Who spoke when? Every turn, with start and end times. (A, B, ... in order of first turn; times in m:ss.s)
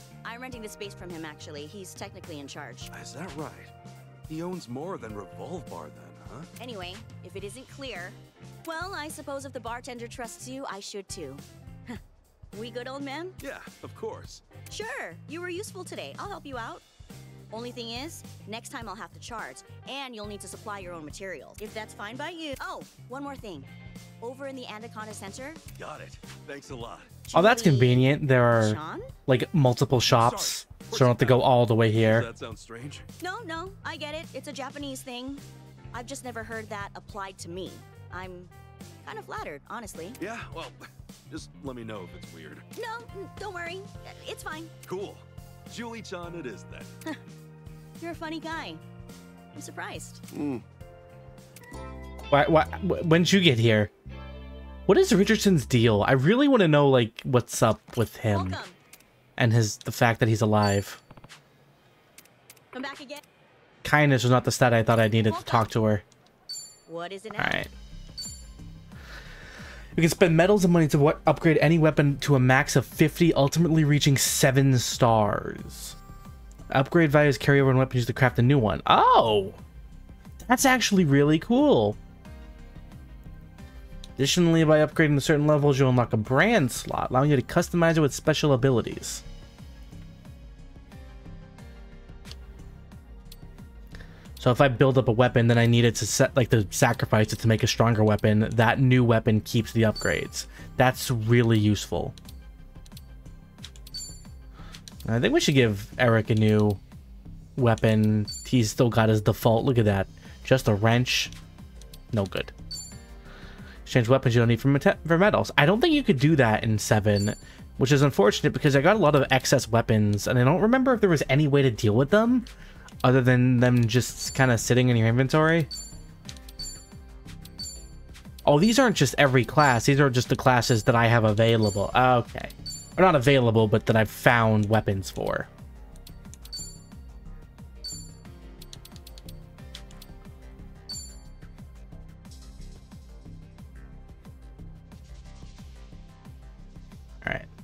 0:00.2-0:02.9 A
0:02.9-0:03.7 B
0:04.3-0:06.5 B
0:06.6-0:12.0 A
0:12.5-0:13.4 A
0:13.4-0:14.4 B
0:14.7-0:16.8 A
0:17.5-0:23.7 A
0:24.2-0:25.6 A
0:25.8-0:27.1 B
0:27.2-0:29.1 A
0:27.3-0:32.3 C
0:30.0-0:33.0 B
0:33.2-0:38.5 A
0:39.0-0:40.2 A
0:40.2-0:42.6 B
0:42.7-0:44.7 A
0:44.8-0:46.9 B
0:48.0-0:48.8 A
0:49.5-0:50.2 A
0:52.3-0:53.9 C
0:54.9-0:58.6 C
0:58.3-0:58.8 A
0:59.4-1:01.0 C
1:02.7-1:03.2 A
1:03.8-1:06.0 C
1:05.2-1:05.7 A
1:06.9-1:07.6 A
1:07.4-1:07.7 C
1:10.0-1:16.0 C
1:16.7-1:19.6 C
1:20.4-1:22.0 C
1:24.2-1:29.2 C
1:34.4-1:42.1 C
1:45.0-1:46.8 C
1:47.6-1:51.3 C
1:52.1-1:52.5 C
1:53.8-2:02.5 C
2:03.0-2:05.7 C
2:08.4-2:15.5 C